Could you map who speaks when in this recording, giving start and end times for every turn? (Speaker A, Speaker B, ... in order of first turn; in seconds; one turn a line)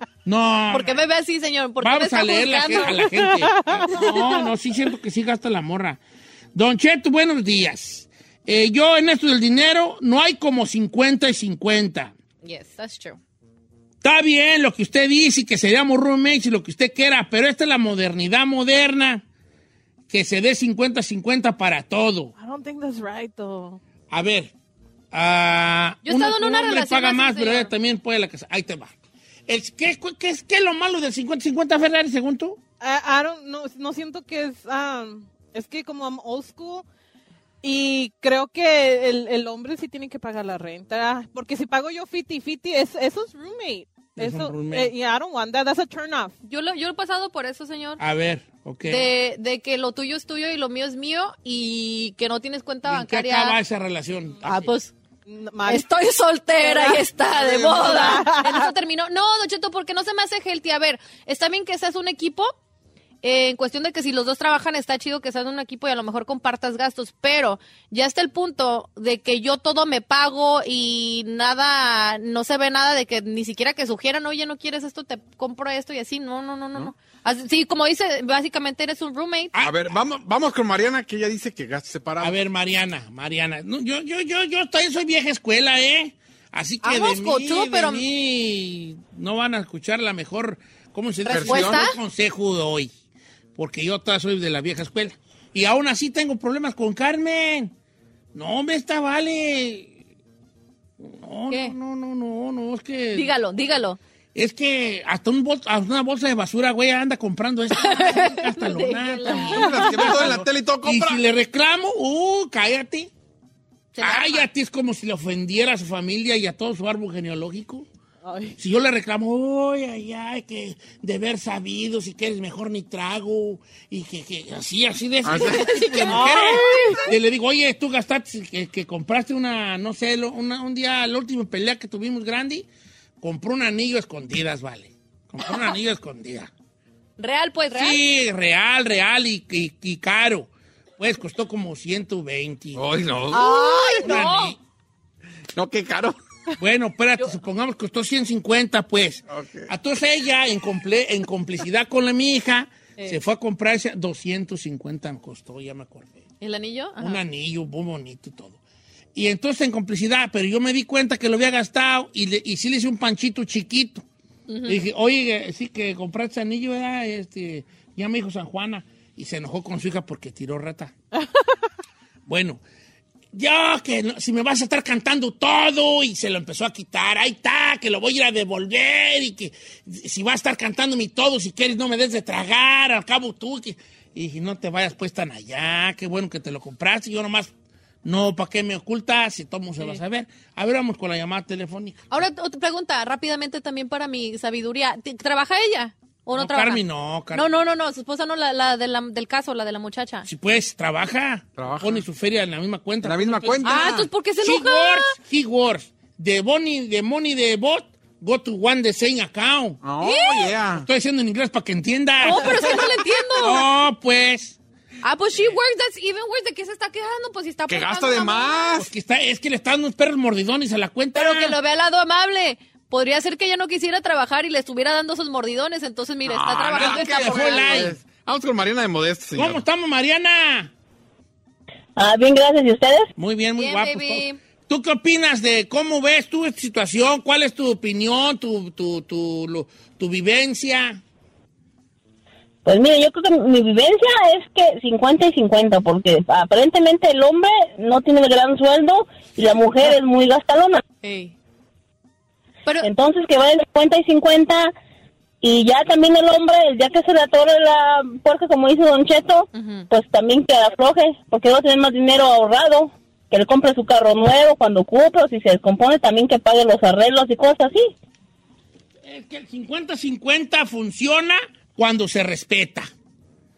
Speaker A: 0.2-1.0
Speaker B: 0.7-3.1
Speaker A: 1.8-6.0
Speaker C: 2.8-4.5
Speaker A: 6.5-12.1
Speaker B: 12.4-13.2
Speaker A: 14.0-19.2
Speaker A: 20.1-22.3
Speaker C: 22.4-23.8
Speaker A: 24.1-24.5
Speaker A: 25.1-28.9
Speaker B: 26.1-27.7
Speaker A: 29.5-32.6
Speaker C: 32.8-36.9
Speaker C: 37.6-46.3
Speaker A: 44.2-44.9
Speaker B: 46.4-48.0
Speaker A: 48.0-49.1
Speaker B: 48.9-53.6
Speaker A: 52.9-54.7
Speaker B: 54.4-54.9
Speaker C: 55.3-55.9
Speaker B: 55.7-62.5
Speaker C: 56.6-58.7
Speaker B: 63.2-79.5
Speaker D: 79.6-82.3
Speaker A: 82.2-92.9
Speaker B: 86.8-88.0
Speaker B: 91.3-92.0
Speaker D: 91.3-91.9
Speaker A: 93.6-97.7
Speaker A: 98.3-99.9
Speaker A: 101.0-103.3
Speaker B: 101.5-101.8
Speaker B: 103.1-104.0
Speaker A: 104.3-113.1
Speaker B: 107.7-109.9
Speaker D: 109.4-111.2
Speaker B: 113.9-114.5
Speaker A: 114.0-117.9
Speaker C: 118.2-118.6
Speaker A: 118.6-132.7
Speaker D: 125.2-126.1
Speaker B: 125.4-127.0
Speaker C: 126.1-127.1
Speaker A: 133.2-136.5
Speaker B: 137.2-138.0
Speaker A: 137.7-142.8
Speaker D: 142.8-144.2
Speaker B: 143.3-144.6
Speaker C: 143.7-143.9
Speaker A: 144.0-144.6
Speaker D: 145.6-146.2
Speaker A: 146.6-156.2
Speaker D: 149.3-149.7
Speaker B: 156.4-157.2
Speaker A: 157.0-158.6
Speaker A: 159.2-164.0
Speaker B: 164.5-164.8
Speaker A: 164.7-170.9
Speaker C: 171.2-171.7
Speaker A: 172.3-172.6
Speaker A: 173.3-187.5
Speaker A: 188.0-192.0
Speaker B: 192.1-200.3
Speaker A: 196.4-197.5
Speaker A: 200.3-209.8
Speaker D: 201.6-202.1
Speaker D: 203.0-204.1
Speaker B: 203.6-205.1
Speaker D: 209.8-210.9
Speaker B: 210.0-210.5
Speaker A: 210.8-214.6
Speaker B: 212.2-213.7
Speaker B: 215.0-218.8
Speaker D: 217.7-218.9
Speaker A: 218.8-221.6
Speaker B: 221.2-227.8
Speaker D: 226.2-229.6
Speaker A: 226.8-228.0
Speaker A: 229.3-230.7
Speaker E: 232.0-233.1
Speaker A: 233.2-241.0
Speaker B: 233.6-234.4
Speaker E: 242.7-250.8
Speaker B: 251.0-251.3
Speaker E: 252.8-254.7
Speaker E: 255.4-267.9
Speaker B: 259.5-259.9
Speaker A: 269.1-272.9